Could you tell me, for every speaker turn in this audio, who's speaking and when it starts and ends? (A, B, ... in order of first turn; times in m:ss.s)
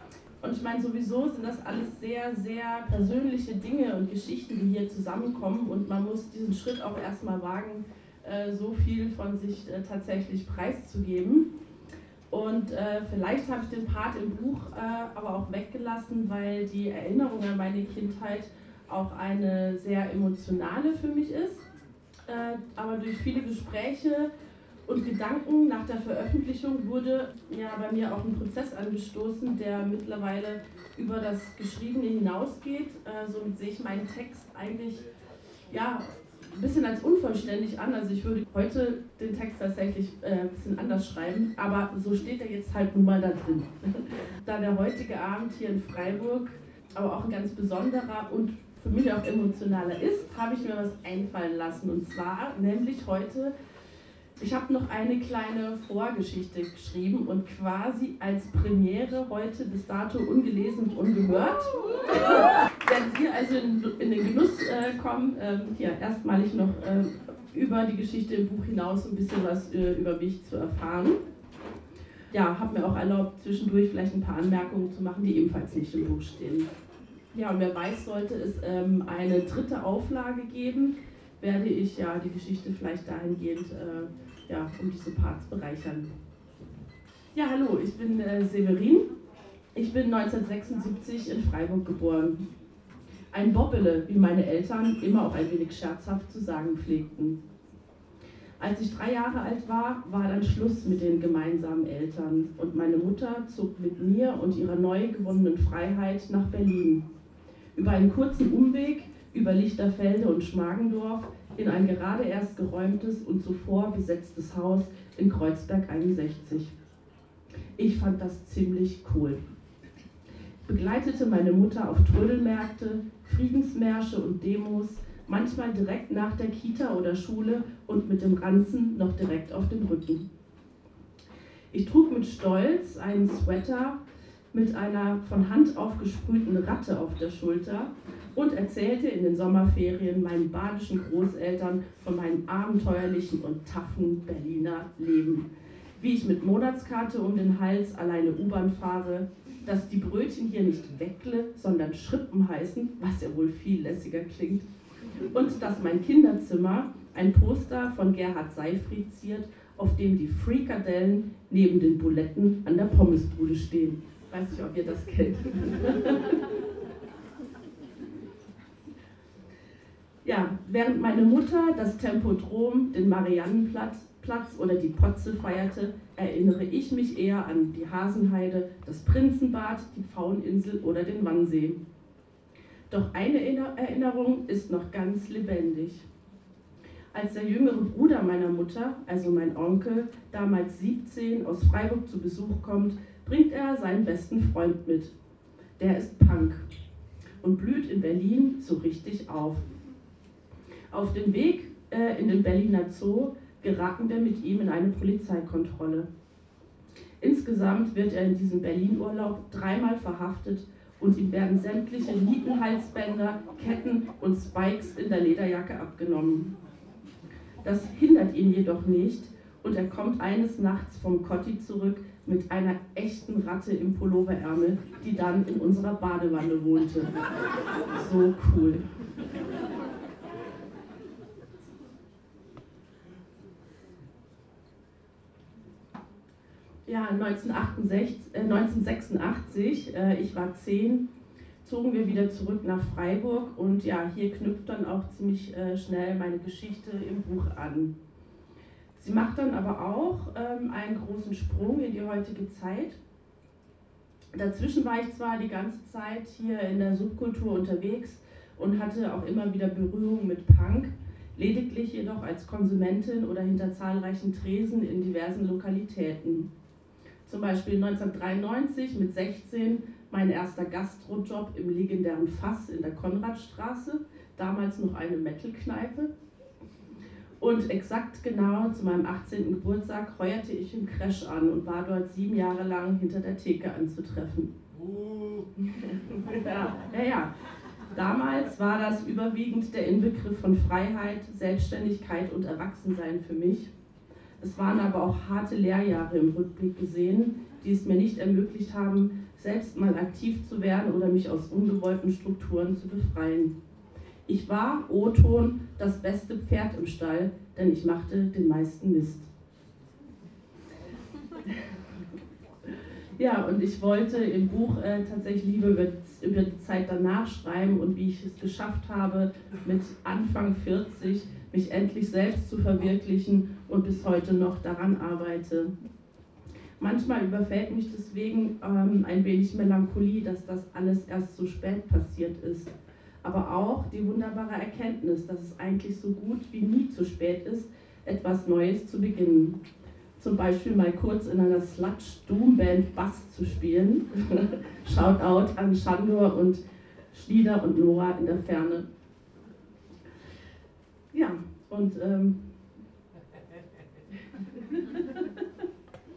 0:00.4-0:11.5 A
0:12.3-0:21.6 A
0:22.3-0:24.3 A
0:24.8-0:35.0 A
0:35.7-0:53.5 A
0:54.4-1:11.2 A
1:12.3-1:16.7 A
1:17.3-1:26.1 A
1:27.3-1:29.1 A
1:29.7-1:32.4 A
1:33.3-1:37.4 A
1:38.6-1:47.0 A
1:47.7-1:56.7 A
1:57.8-1:59.4 A
2:00.6-2:10.3 A
2:11.7-2:14.0 A
2:14.5-2:34.6 A
2:35.2-2:46.5 A
2:50.2-3:01.8 A
3:02.9-3:06.1 A
3:07.1-3:15.1 A
3:15.8-3:16.6 A
3:17.4-3:19.7 A
3:20.9-3:26.1 A
3:27.2-3:36.5 A
3:37.6-3:47.1 A
3:47.9-3:48.8 A
3:56.8-4:01.1 A
4:01.6-4:07.9 A
4:08.9-4:13.0 A
4:14.3-4:26.5 A
4:27.2-4:36.1 A
4:37.4-4:44.5 A
4:45.6-4:47.3 A
4:47.9-4:53.7 A
4:54.4-5:03.5 A
5:04.2-5:09.3 A
5:13.2-5:25.7 A
5:26.8-5:39.6 A
5:40.2-5:48.8 A
5:51.1-5:52.4 A
5:54.5-5:55.4 A